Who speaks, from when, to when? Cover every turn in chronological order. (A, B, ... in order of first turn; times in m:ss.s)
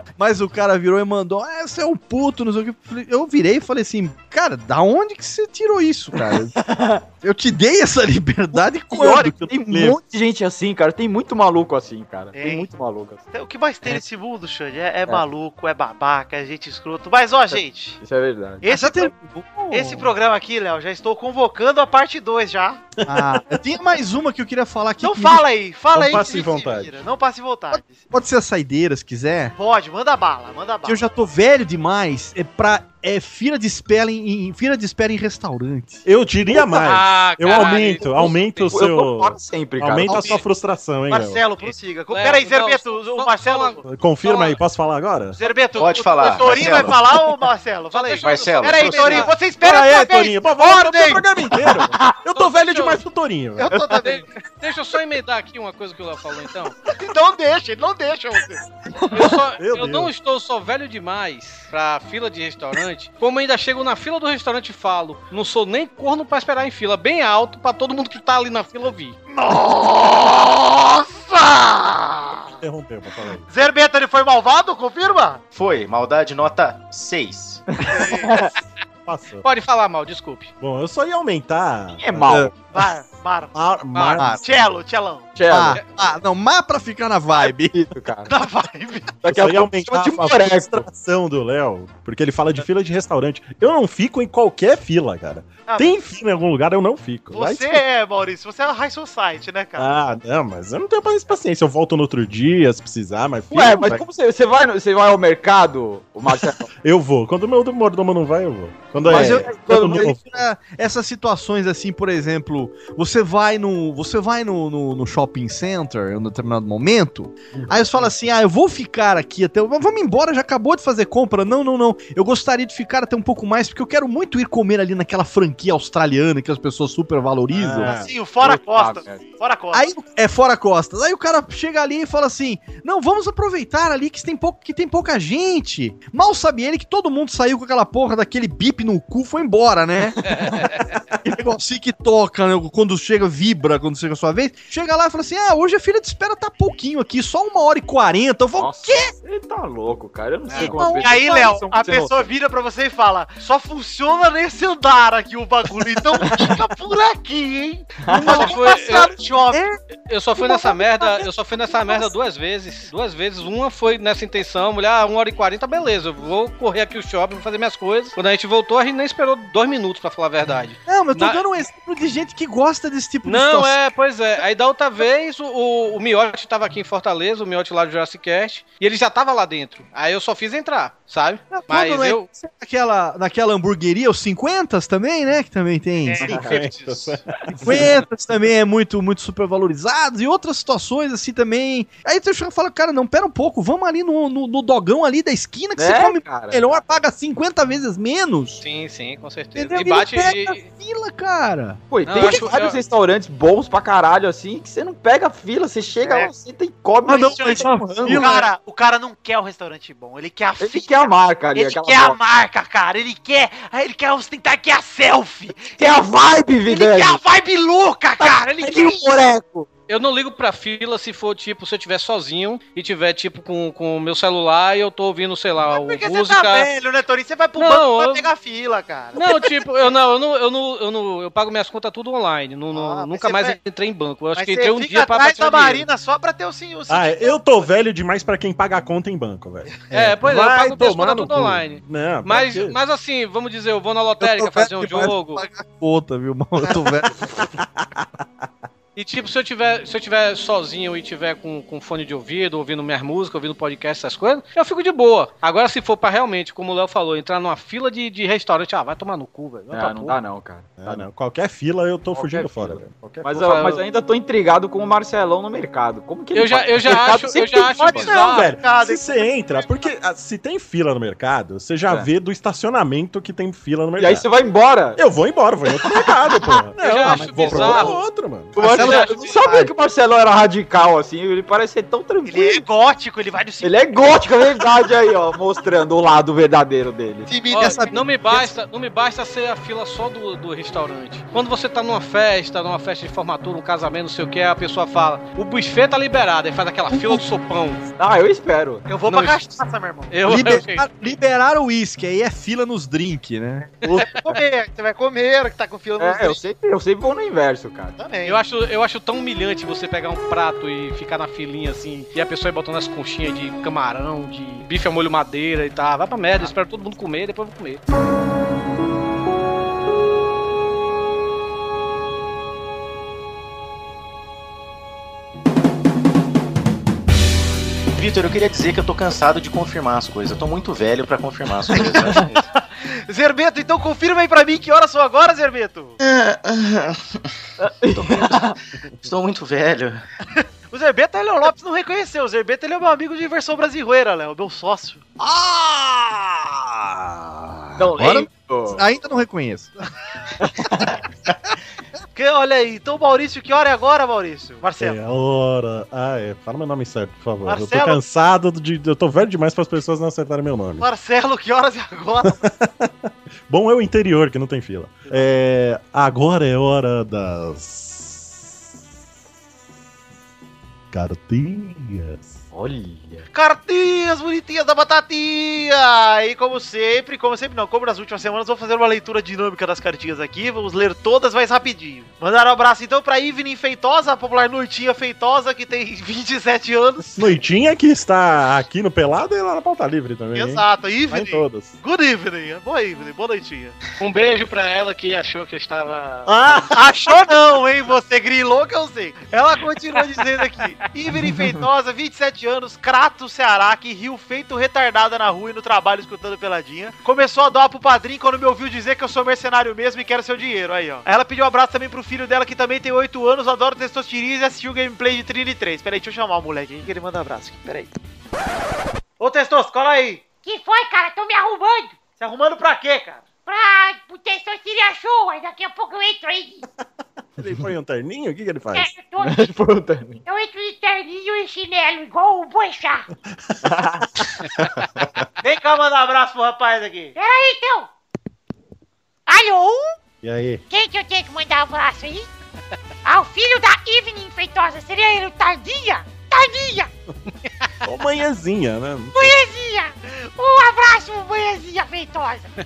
0:00.2-0:06.6 A
0:06.6-0:07.0 B
0:07.2-0:10.0 A
0:08.9-0:13.2 B
0:12.3-0:12.7 C
0:13.3-0:18.0 C
0:17.5-0:18.6 B
0:18.6-0:19.1 C
0:18.6-0:20.1 A
0:19.7-0:22.8 C
0:23.0-0:23.6 D
0:23.0-0:25.4 A
0:25.0-0:28.0 C
0:25.9-0:27.0 D
0:27.7-0:29.5 A
0:29.6-0:31.0 C
0:30.8-0:36.0 A
0:36.0-0:41.4 D
0:36.7-0:38.8 E
0:38.0-0:40.4 B
0:40.1-0:40.4 C
0:41.1-0:43.8 C
0:42.1-0:44.6 E
0:43.8-0:45.4 D
0:45.4-0:51.3 C
0:45.7-0:47.0 F
0:47.9-0:49.4 E
0:48.2-0:49.3 F
0:49.5-0:53.8 D
0:52.3-0:53.0 E
0:53.6-0:54.3 C
0:54.0-0:56.8 E
0:56.8-0:58.6 C
0:59.0-0:59.3 B
0:59.1-1:09.2 E
0:59.6-1:00.1 D
1:09.3-1:12.6 C
1:12.6-1:13.4 D
1:13.5-1:15.4 C
1:15.5-1:17.6 F
1:17.7-1:18.5 B
1:17.9-1:18.4 C
1:19.0-1:19.4 D
1:19.4-1:20.5 E
1:20.6-1:22.5 D
1:22.0-1:22.6 B
1:22.6-1:23.6 C
1:23.5-1:24.4 D
1:23.9-1:24.3 E
1:24.3-1:25.4 C
1:25.4-1:25.8 B
1:25.5-1:27.8 A
1:27.7-1:28.3 B
1:28.2-1:29.2 C
1:29.2-1:30.8 B
1:29.3-1:37.8 D
1:30.5-1:30.8 A
1:35.6-1:36.0 C
1:37.3-1:39.9 C
1:39.8-1:44.0 D
1:43.5-1:46.7 B
1:46.8-1:50.4 D
1:49.0-1:50.1 B
1:49.0-2:07.9 A
1:57.5-1:58.1 D
2:07.5-2:08.1 D
2:07.8-2:09.9 C
2:07.9-2:09.3 B
2:09.7-2:20.4 A
2:20.3-2:20.8 E
2:21.2-2:29.1 A
2:28.6-2:32.3 B
2:30.6-2:31.3 A
2:30.6-2:39.6 C
2:36.2-2:36.5 B
2:38.0-2:38.5 B
2:38.1-2:38.8 A
2:38.2-2:39.2 E
2:39.5-2:39.8 A
2:40.1-2:51.4 E
2:40.3-2:42.1 A
2:50.9-2:53.8 A
2:53.2-3:02.2 E
3:01.5-3:06.3 A
3:06.2-3:06.6 B
3:06.3-3:07.9 D
3:07.6-3:18.6 A
3:15.8-3:16.8 B
3:18.6-3:20.6 E
3:19.5-3:21.8 A
3:21.9-3:28.3 B
3:22.0-3:22.8 E
3:25.8-3:26.3 C
3:27.0-3:28.4 A
3:27.1-3:36.0 C
3:30.6-3:32.2 B
3:35.7-3:37.2 B
3:36.6-3:39.1 C
3:38.2-3:39.7 B
3:39.9-3:46.7 E
3:45.6-3:49.6 C
3:47.6-3:48.3 E
3:49.1-3:55.9 E
3:52.7-3:53.6 C
3:54.4-3:57.7 C
3:56.9-4:02.8 D
3:59.9-4:05.4 E
4:04.2-4:07.3 A
4:07.6-4:07.8 D
4:09.0-4:20.2 E
4:19.7-4:21.0 B
4:20.8-4:23.4 D
4:22.1-4:28.1 B
4:23.3-4:23.8 E
4:26.3-4:28.5 E
4:27.4-4:29.9 C
4:28.1-4:34.3 D
4:34.0-4:35.0 B
4:35.0-4:38.6 D
4:35.7-4:36.7 B
4:36.8-4:38.0 E
4:37.0-4:37.9 A
4:37.5-4:37.9 B
4:38.5-4:42.6 B
4:38.6-4:39.7 A
4:38.6-4:39.3 E
4:42.2-4:44.3 C
4:43.6-4:47.3 B
4:47.3-4:48.4 C
4:47.5-4:57.8 E
4:47.5-4:48.4 A
4:58.0-4:58.8 B
4:58.8-5:00.2 C
4:59.1-4:59.4 E
5:00.1-5:00.9 E
5:00.2-5:04.0 A
5:03.9-5:06.4 C
5:06.0-5:08.0 B
5:08.0-5:08.4 C
5:08.2-5:17.8 E
5:27.9-5:32.4 F
5:31.7-5:36.0 C
5:36.0-5:37.3 F
5:37.6-5:38.5 B
5:37.9-5:40.0 F
5:40.4-5:45.0 C
5:45.2-5:46.6 A
5:47.0-5:47.9 D
5:47.8-5:48.8 B
5:47.9-5:49.8 A
5:50.4-5:50.9 B
5:52.1-5:55.0 C
5:54.8-6:00.8 D
5:57.4-5:58.0 C
6:00.8-6:02.4 C
6:02.2-6:02.9 D
6:03.5-6:08.3 D
6:10.9-6:12.4 D
6:12.5-6:13.3 B
6:13.3-6:27.2 C
6:27.2-6:31.8 D
6:30.3-6:33.8 C
6:34.0-6:36.3 E
6:36.2-6:36.7 D
6:36.6-6:57.9 C
6:59.2-7:00.3 C
7:00.4-7:02.0 G
7:02.1-7:03.2 C
7:03.4-7:06.6 G
7:07.4-7:08.9 D
7:08.7-7:09.5 G
7:09.2-7:10.2 B
7:10.2-7:13.0 G
7:13.6-7:14.2 B
7:15.4-7:17.1 C
7:17.2-7:17.9 G
7:19.3-7:19.9 G
7:20.2-7:20.6 D
7:20.7-7:22.3 G
7:23.0-7:26.9 G
7:27.8-7:29.3 D
7:29.1-7:32.5 G